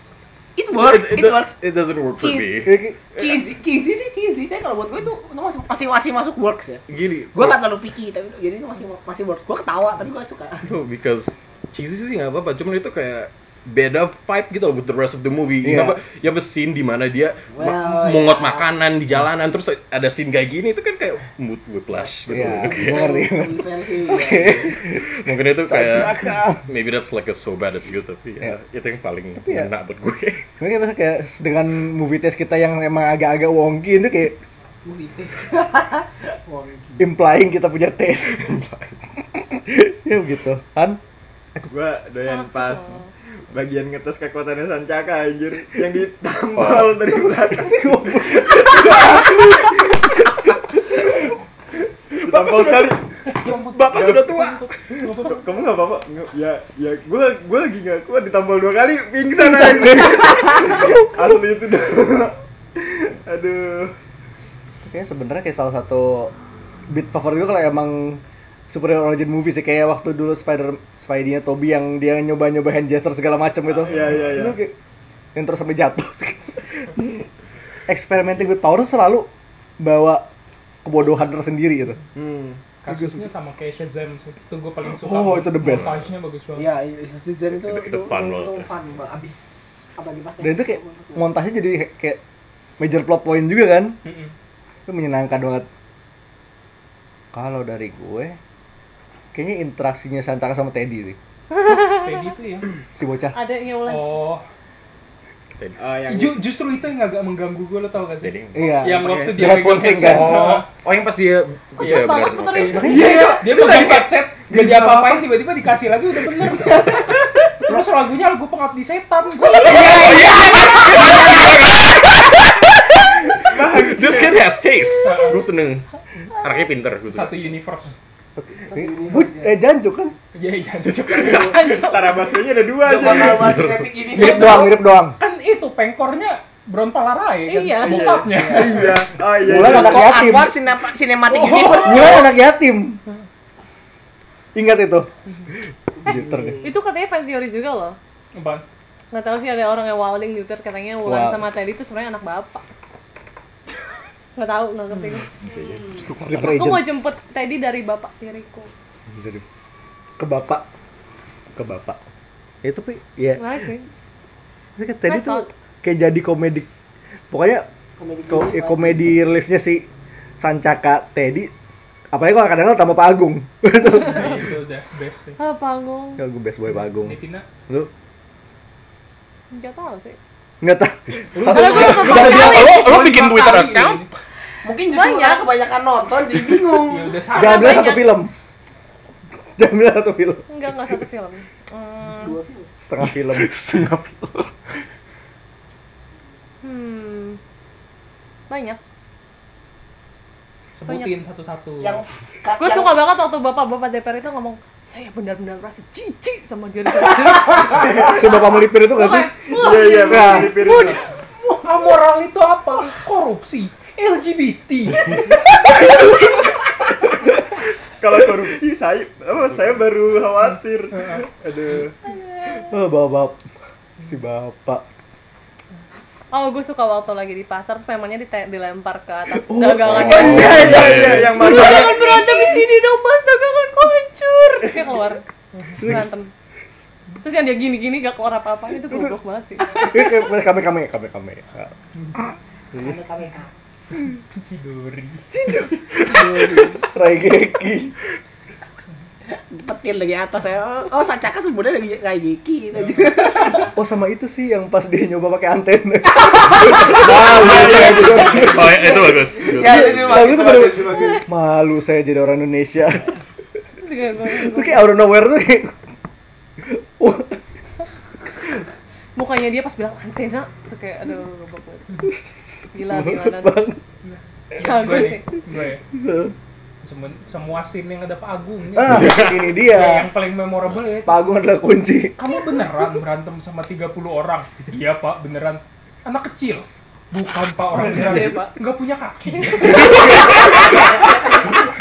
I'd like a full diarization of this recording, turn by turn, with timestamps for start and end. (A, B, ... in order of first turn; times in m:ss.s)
0:00.6-0:01.5 A
0:00.7-0:03.4 B
0:02.2-0:06.8 A
0:02.6-0:03.0 C
0:06.9-0:07.6 B
0:07.3-0:10.6 A
0:10.6-0:23.2 B
0:15.6-0:16.0 C
0:17.5-0:18.7 A
0:21.9-0:24.7 A
0:22.3-0:26.6 C
0:24.9-0:30.5 B
0:29.4-0:29.7 C
0:30.6-0:34.4 C
0:34.8-0:37.1 A
0:37.0-0:38.5 C
0:38.3-0:39.1 B
0:39.6-0:41.0 C
0:41.7-0:49.6 D
0:42.3-0:43.1 E
0:46.6-0:47.3 B
0:47.5-0:51.1 C
0:52.2-0:53.0 D
0:52.2-0:52.9 B
0:53.3-0:55.5 F
0:53.7-0:54.8 B
0:55.3-1:04.0 D
0:59.6-1:00.2 C
1:04.8-1:06.3 C
1:06.9-1:14.7 C
1:13.7-1:14.6 D
1:15.4-1:17.2 C
1:17.9-1:19.3 C
1:19.8-1:20.3 C
1:20.8-1:22.0 C
1:22.2-1:22.6 D
1:22.8-1:26.7 F
1:22.9-1:23.3 C
1:24.9-1:26.0 C
1:25.6-1:26.0 B
1:26.6-1:31.3 A
1:27.5-1:28.7 B
1:30.4-1:32.2 C
1:32.8-1:34.0 C
1:34.0-1:34.3 F
1:34.9-1:35.7 C
1:37.3-1:38.4 C
1:39.3-1:41.2 C
1:41.6-1:42.0 E
1:41.8-1:42.7 F
1:43.0-1:43.4 C
1:43.3-1:44.1 E
1:43.8-1:44.4 F
1:45.5-1:45.8 B
1:45.8-1:46.4 D
1:46.1-1:50.7 F
1:48.2-1:48.7 B
1:48.6-1:50.4 C
1:49.0-1:49.3 D
1:50.0-1:53.0 B
1:51.8-1:53.4 E
1:51.8-1:57.0 F
1:52.7-1:53.4 C
1:53.0-1:53.4 A
1:54.5-1:55.0 C
1:56.6-1:57.3 A
1:57.7-2:01.3 F
1:59.6-2:01.9 A
1:59.7-2:02.4 B
2:03.5-2:04.5 D
2:03.5-2:07.5 B
2:05.0-2:05.4 F
2:07.1-2:07.9 F
2:08.4-2:10.2 C
2:08.6-2:09.5 A
2:10.4-2:11.9 F
2:11.1-2:11.5 A
2:11.3-2:12.2 E
2:11.7-2:13.7 D
2:12.8-2:14.8 A
2:13.3-2:13.9 B
2:14.1-2:15.2 C
2:14.1-2:19.0 F
2:17.5-2:18.2 E
2:17.8-2:20.1 D
2:18.4-2:18.8 A
2:19.4-2:20.5 C
2:19.6-2:22.2 A
2:21.3-2:22.1 F
2:21.8-2:23.0 C
2:24.6-2:25.1 C
2:26.0-2:26.7 A
2:26.0-2:26.6 C
2:26.1-2:28.0 E
2:28.4-2:28.6 F
2:29.1-2:32.6 E
2:31.0-2:31.4 C
2:34.4-2:35.3 E
2:35.4-2:36.4 B
2:35.7-2:36.1 A
2:36.0-2:36.9 C
2:36.4-2:38.7 E
2:39.1-2:39.4 C
2:40.2-2:40.6 C
2:41.6-2:42.0 C
2:42.6-2:43.6 C
2:43.4-2:43.9 E
2:44.8-2:46.7 C
2:45.1-2:45.5 E
2:47.3-2:47.7 C
2:48.0-2:49.0 A
2:48.3-2:49.9 C
2:50.4-2:51.5 C
2:52.1-2:54.4 C
2:53.9-2:55.4 F
2:55.4-2:56.2 E
2:56.2-2:57.2 C
2:57.0-2:57.4 F
2:59.5-3:00.2 E
3:00.6-3:02.7 C
3:01.4-3:04.1 F
3:01.4-3:02.9 E
3:01.6-3:04.1 B
3:04.6-3:07.2 A
3:04.8-3:05.6 E
3:06.8-3:08.0 F
3:07.3-3:08.1 E
3:07.3-3:08.3 C
3:09.6-3:11.0 C
3:10.5-3:12.4 E
3:12.1-3:12.7 A
3:12.8-3:14.5 C
3:13.5-3:13.8 B
3:16.6-3:17.4 E
3:18.5-3:18.8 E
3:20.7-3:22.0 F
3:20.9-3:21.1 E
3:21.8-3:23.0 A
3:22.6-3:30.9 E
3:27.8-3:28.2 D
3:28.1-3:29.3 C
3:29.5-3:31.0 D
3:30.0-3:30.6 C
3:30.6-3:35.2 F
3:38.0-3:41.9 D
3:41.0-3:41.2 F
3:42.5-3:43.4 C
3:44.0-3:44.8 C
3:46.3-3:55.2 E
3:49.3-3:51.7 C
3:49.8-3:51.5 B
3:50.1-3:52.2 D
3:55.8-3:56.3 E
3:57.2-4:00.0 E
3:59.8-4:03.0 C
4:02.8-4:03.5 A
4:04.0-4:05.3 F
4:05.3-4:08.0 C
4:06.1-4:06.8 A
4:09.3-4:13.7 A
4:13.7-4:18.7 C
4:16.1-4:21.2 A
4:17.3-4:20.5 B
4:19.6-4:23.1 C
4:20.9-4:21.2 E
4:23.8-4:24.9 E
4:24.3-4:25.8 C
4:26.6-4:27.4 C
4:29.2-4:32.1 E
4:32.7-4:33.6 E
4:32.8-4:33.8 C
4:34.0-4:35.8 F
4:34.6-4:35.3 E
4:35.9-4:36.3 C
4:36.8-4:41.3 F
4:38.8-4:40.1 C
4:41.1-4:42.2 C
4:42.2-4:50.8 F
4:47.9-4:48.6 E
4:49.9-4:50.4 C
4:50.0-4:50.5 E